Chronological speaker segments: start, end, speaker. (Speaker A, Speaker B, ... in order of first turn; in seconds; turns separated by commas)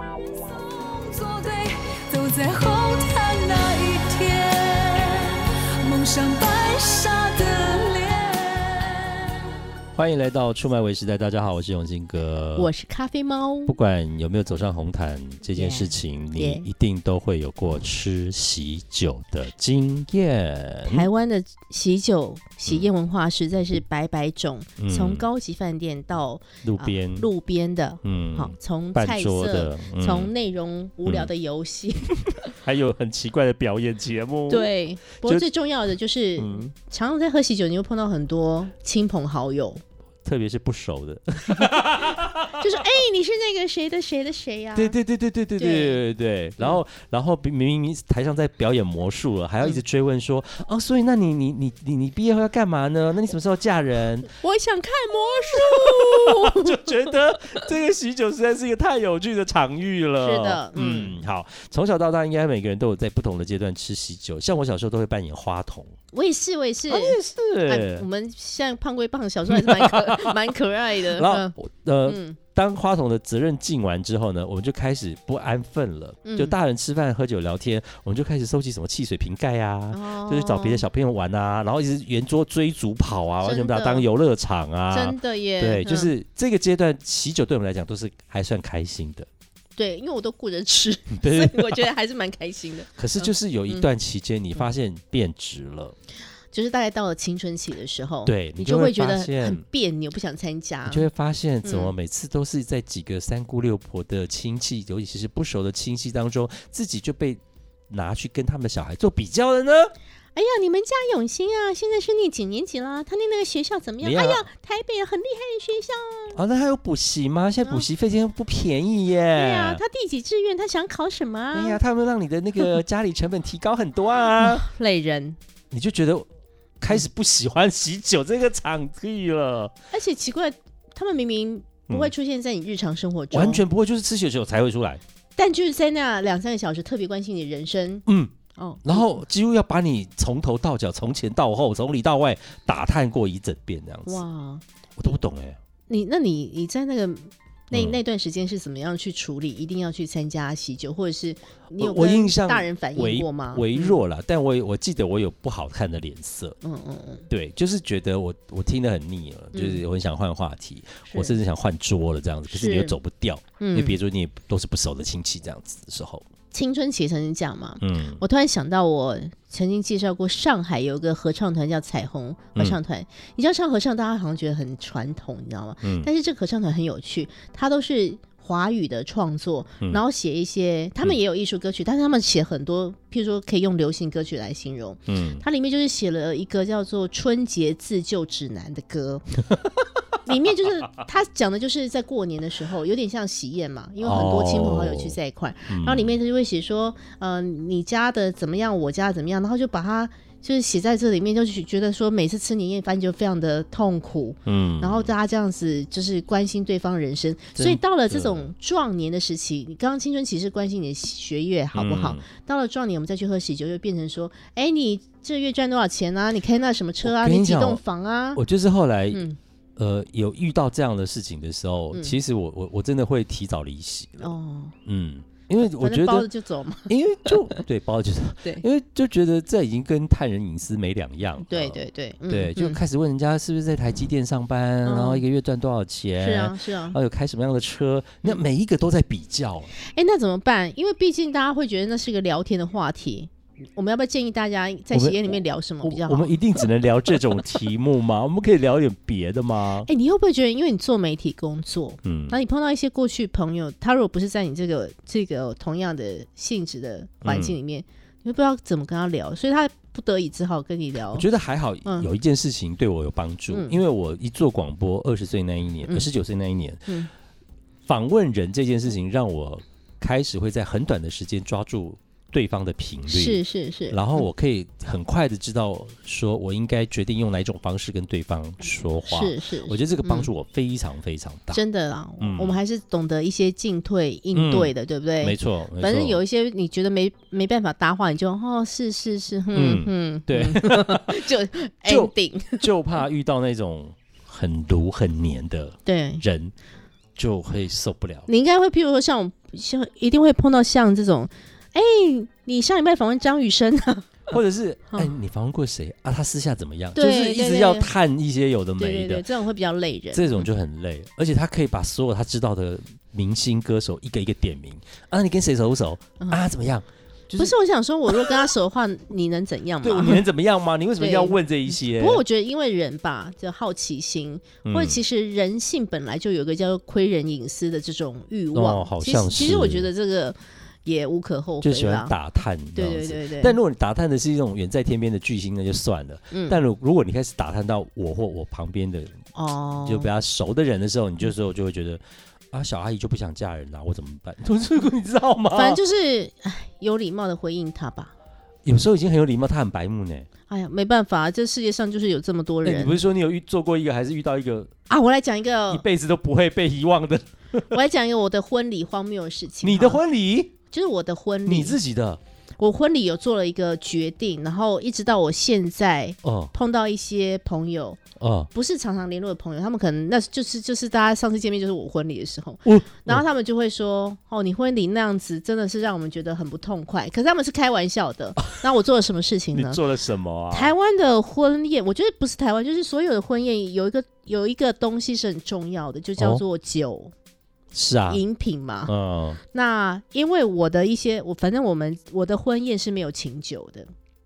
Speaker A: 0.4-9.5, Speaker B: 9.9-12.7, Speaker C: 12.6-13.7, Speaker B: 13.7-21.1, Speaker C: 15.5-16.7, Speaker C: 20.9-32.5, Speaker B: 24.8-25.3, Speaker B: 26.6-27.3, Speaker B: 28.0-30.3, Speaker B: 32.6-34.7, Speaker C: 34.5-39.8, Speaker B: 35.2-35.5, Speaker B: 36.4-36.7, Speaker B: 40.2-42.7, Speaker C: 42.6-45.0, Speaker B: 44.8-54.3, Speaker C: 45.6-46.0, Speaker C: 54.4-57.7, Speaker B: 55.6-65.9, Speaker C: 60.2-61.2, Speaker C: 66.1-71.5, Speaker B: 66.9-68.1, Speaker B: 69.5-70.5, Speaker B: 71.1-89.3, Speaker C: 72.1-72.4, Speaker C: 76.2-76.6, Speaker C: 79.9-80.8, Speaker C: 83.4-84.1, Speaker C: 84.9-86.1, Speaker C: 89.8-93.9, Speaker B: 91.1-91.9, Speaker B: 93.0-96.0, Speaker C: 96.5-101.1, Speaker B: 98.3-99.7, Speaker B: 100.9-109.9, Speaker C: 101.7-101.9, Speaker C: 110.3-116.4, Speaker B: 114.0-114.5, Speaker B: 116.3-119.8, Speaker C: 119.3-121.8, Speaker B: 121.5-124.7, Speaker C: 124.3-125.4, Speaker B: 125.7-126.3, Speaker B: 126.8-129.7, Speaker C: 129.9-133.6, Speaker B: 133.3-135.0, Speaker C: 135.4-139.2, Speaker B: 138.1-144.2, Speaker C: 144.1-144.6, Speaker B: 145.0-145.6, Speaker C: 145.9-154.0, Speaker B: 147.7-148.0, Speaker B: 151.8-156.6, Speaker C: 156.6-157.2, Speaker B: 157.3-166.2, Speaker C: 159.5-159.8, Speaker C: 161.1-161.4, Speaker C: 162.5-163.0, Speaker C: 163.6-164.0, Speaker C: 166.5-189.3, Speaker B: 167.8-168.2, Speaker B: 175.8-176.1, Speaker B: 185.1-185.4, Speaker C: 190.2-218.4, Speaker B: 194.0-195.2, Speaker B: 195.7-196.2, Speaker B: 204.5-205.1, Speaker B: 207.6-208.5, Speaker B: 211.8-212.2, Speaker B: 217.0-217.8, Speaker B: 218.3-219.2, Speaker C: 219.1-219.4, Speaker B: 219.8-224.3, Speaker C: 224.2-224.8, Speaker B: 224.8-226.3, Speaker C: 225.6-227.6, Speaker B: 226.9-239.7, Speaker C: 231.4-232.8, Speaker C: 234.8-235.2, Speaker C: 236.2-237.0, Speaker C: 239.8-246.4, Speaker B: 244.9-249.9, Speaker C: 249.9-261.3, Speaker B: 252.0-252.4, Speaker B: 257.2-257.6, Speaker B: 261.1-266.9, Speaker C: 261.9-262.1, Speaker C: 263.5-263.8, Speaker B: 267.9-281.6, Speaker C: 273.1-274.2, Speaker C: 279.1-280.3, Speaker C: 281.5-292.7, Speaker B: 282.2-282.6, Speaker B: 284.3-286.2, Speaker B: 289.5-291.2, Speaker B: 291.9-296.5, Speaker C: 295.9-296.2, Speaker B: 297.2-298.3, Speaker C: 298.3-304.4, Speaker B: 304.3-309.3, Speaker C: 306.9-307.9, Speaker C: 308.8-310.5, Speaker B: 310.1-317.5, Speaker C: 317.4-320.2, Speaker B: 318.1-318.4, Speaker B: 319.8-322.2, Speaker C: 321.0-332.1, Speaker B: 324.6-325.0, Speaker B: 328.5-329.9, Speaker B: 331.6-339.1, Speaker C: 332.7-333.6, Speaker C: 336.3-336.6, Speaker C: 339.4-340.1, Speaker B: 339.9-342.0, Speaker B: 342.5-345.8, Speaker C: 345.5-348.1, Speaker B: 348.6-350.3, Speaker C: 350.5-353.0, Speaker B: 352.6-354.7, Speaker C: 354.9-355.9, Speaker B: 355.7-357.6, Speaker C: 357.7-360.0, Speaker B: 359.6-360.5, Speaker C: 360.7-361.8, Speaker B: 361.5-362.2, Speaker C: 362.6-368.0, Speaker B: 366.2-366.5, Speaker B: 368.2-368.5, Speaker C: 368.5-379.8, Speaker B: 372.7-373.2, Speaker B: 379.5-380.7, Speaker C: 380.5-387.1, Speaker B: 387.7-388.2, Speaker C: 388.1-388.9, Speaker B: 388.9-389.4, Speaker C: 389.5-393.9